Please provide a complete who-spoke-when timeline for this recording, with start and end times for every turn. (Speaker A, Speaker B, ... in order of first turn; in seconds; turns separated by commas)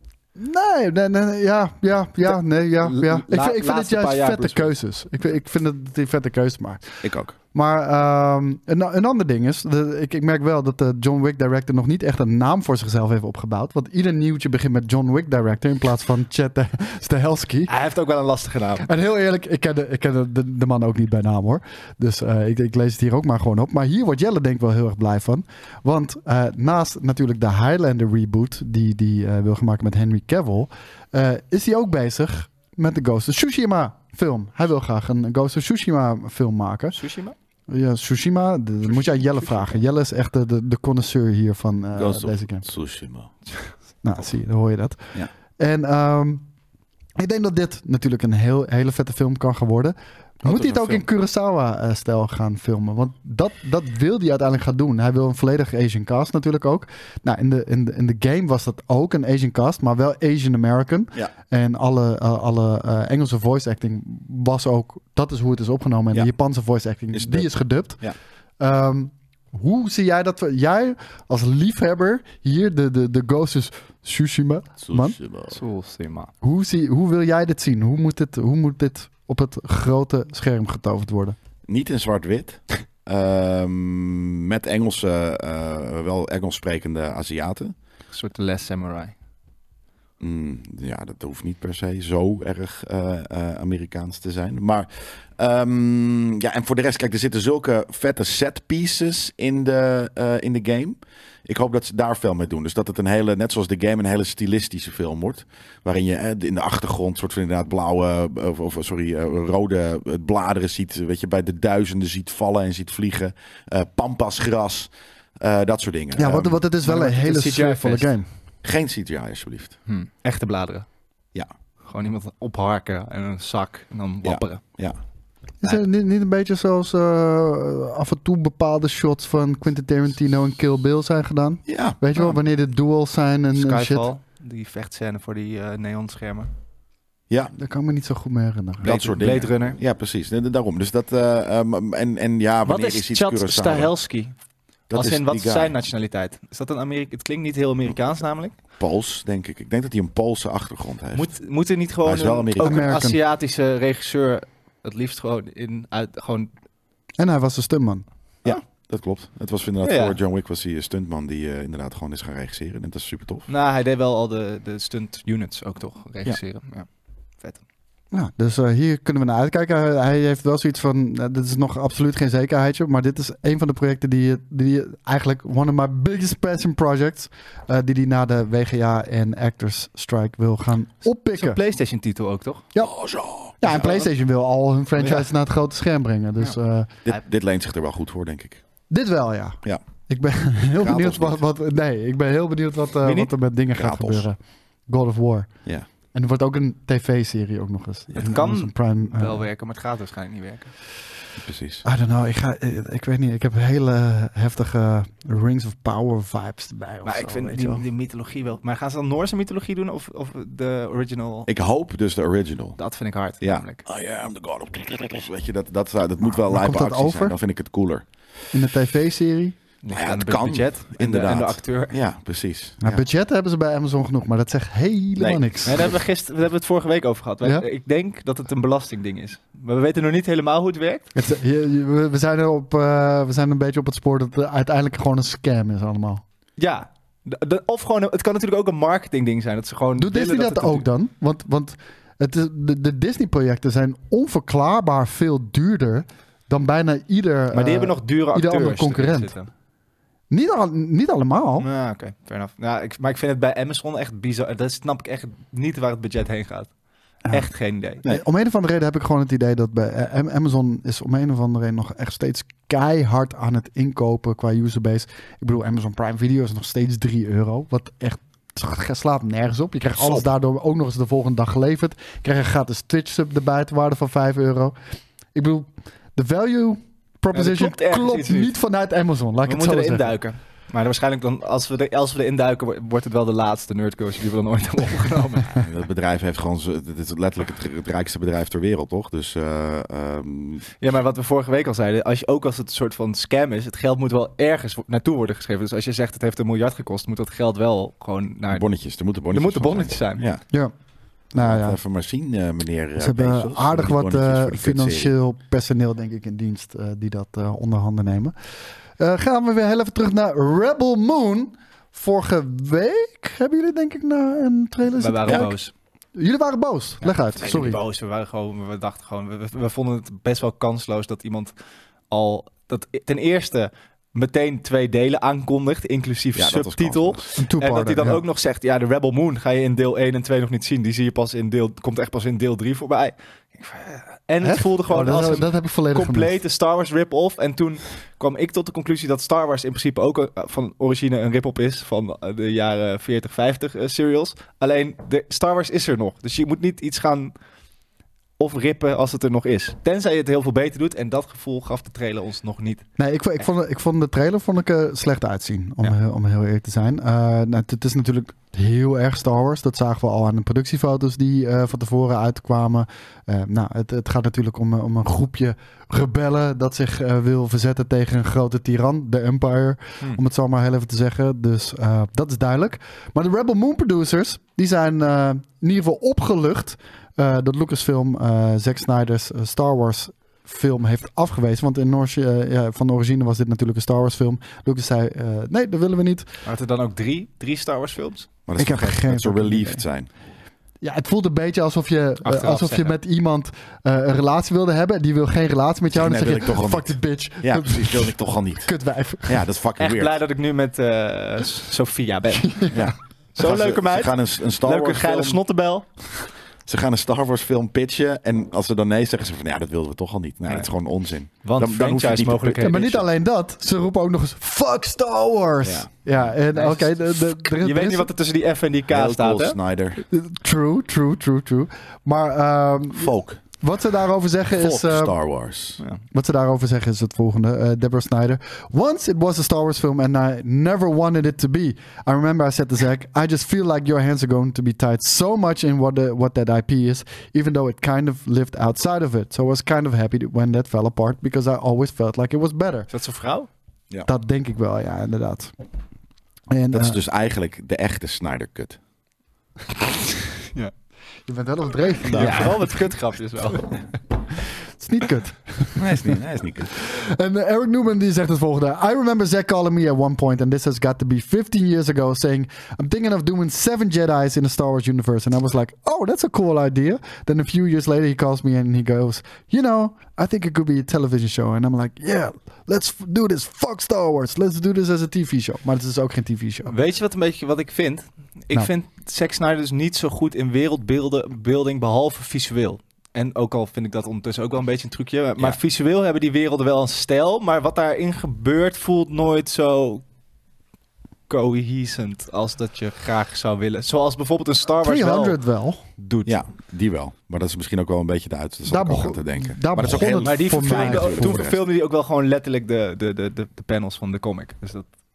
Speaker A: 0.4-17.7, Speaker B: 2.2-4.7, Speaker C: 7.0-7.3, Speaker B: 17.7-18.9, Speaker A: 18.8-37.0, Speaker B: 36.9-37.3, Speaker A: 37.7-42.6, Speaker C: 41.9-43.3, Speaker A: 44.0-46.4, Speaker A: 47.2-68.0, Speaker C: 50.4-51.0, Speaker C: 67.1-68.2, Speaker A: 68.6-75.2, Speaker C: 74.8-75.6, Speaker B: 75.5-76.3, Speaker A: 76.4-81.4, Speaker C: 81.7-87.7, Speaker B: 88.1-89.1, Speaker C: 90.2-116.6, Speaker A: 116.2-118.3, Speaker B: 116.8-118.2, Speaker C: 118.6-119.8, Speaker B: 119.8-120.8, Speaker B: 121.8-124.6, Speaker C: 124.2-125.0, Speaker A: 125.6-134.1, Speaker C: 131.7-132.0, Speaker B: 133.5-136.5, Speaker C: 137.3-137.5, Speaker A: 137.6-139.0, Speaker B: 138.8-139.8, Speaker C: 138.8-143.9, Speaker B: 142.6-144.3, Speaker C: 144.9-145.7, Speaker B: 144.9-148.6, Speaker C: 148.7-151.3, Speaker B: 151.1-156.5, Speaker C: 152.0-152.9, Speaker A: 152.6-153.2, Speaker A: 157.2-158.0, Speaker C: 158.4-163.5, Speaker B: 159.8-160.2, Speaker B: 163.5-166.9, Speaker A: 168.1-181.6, Speaker B: 181.3-182.7, Speaker C: 182.8-184.1, Speaker A: 183.6-186.9, Speaker B: 184.9-185.3, Speaker C: 187.1-188.6, Speaker A: 188.9-199.4, Speaker C: 190.8-191.4, Speaker B: 193.0-193.3, Speaker C: 193.7-194.2, Speaker B: 198.2-200.7, Speaker C: 201.4-201.8, Speaker A: 201.8-207.8, Speaker B: 207.0-211.5, Speaker C: 211.5-212.8, Speaker B: 212.8-213.8, Speaker C: 213.4-218.1, Speaker A: 216.4-217.3, Speaker A: 218.5-219.5, Speaker B: 219.8-222.0, Speaker C: 219.9-223.1, Speaker A: 222.8-225.9, Speaker C: 225.2-225.9, Speaker B: 225.6-231.1, Speaker A: 231.1-236.2, Speaker B: 236.6-240.9, Speaker A: 240.0-249.3, Speaker B: 247.5-249.5, Speaker A: 250.3-251.7, Speaker B: 251.6-256.7, Speaker B: 257.3-258.0, Speaker A: 258.0-274.8, Speaker C: 269.9-270.3, Speaker A: 275.3-280.2, Speaker B: 277.3-278.5, Speaker B: 279.4-285.6, Speaker C: 285.6-290.7, Speaker B: 290.8-298.6, Speaker C: 298.5-300.4, Speaker B: 299.3-300.2, Speaker A: 301.3-301.8, Speaker C: 301.4-305.1, Speaker A: 303.0-308.3, Speaker A: 309.0-315.5, Speaker B: 314.9-315.7, Speaker C: 315.2-315.5, Speaker A: 316.1-317.8, Speaker B: 317.4-321.5, Speaker B: 322.1-347.3, Speaker C: 326.4-327.2, Speaker A: 327.4-328.2, Speaker A: 334.4-336.4, Speaker B: 348.4-352.9, Speaker A: 353.0-386.3, Speaker B: 386.4-388.3, Speaker C: 388.5-390.1, Speaker A: 388.6-389.8, Speaker A: 390.8-399.4, Speaker B: 392.2-392.9, Speaker C: 395.9-398.7, Speaker C: 399.2-400.2, Speaker B: 399.8-402.7, Speaker A: 402.3-402.9, Speaker C: 402.7-405.4, Speaker B: 403.4-405.9, Speaker C: 406.6-413.0, Speaker B: 411.4-413.0, Speaker A: 412.6-418.1, Speaker C: 415.6-416.3, Speaker B: 416.5-419.6, Speaker C: 418.9-420.0, Speaker A: 420.1-425.1, Speaker C: 422.9-423.4, Speaker C: 424.6-425.8, Speaker A: 426.1-442.9, Speaker B: 442.9-443.5, Speaker A: 444.1-445.5, Speaker A: 446.5-447.0, Speaker C: 446.7-448.8, Speaker A: 451.3-452.9, Speaker C: 452.1-452.6, Speaker B: 452.1-453.7, Speaker A: 454.8-456.2, Speaker C: 455.8-456.7, Speaker A: 456.8-476.7, Speaker B: 476.7-490.0, Speaker B: 491.3-495.4, Speaker A: 494.8-495.8, Speaker B: 496.0-496.4, Speaker C: 496.2-501.6, Speaker A: 498.7-501.5, Speaker B: 500.0-504.9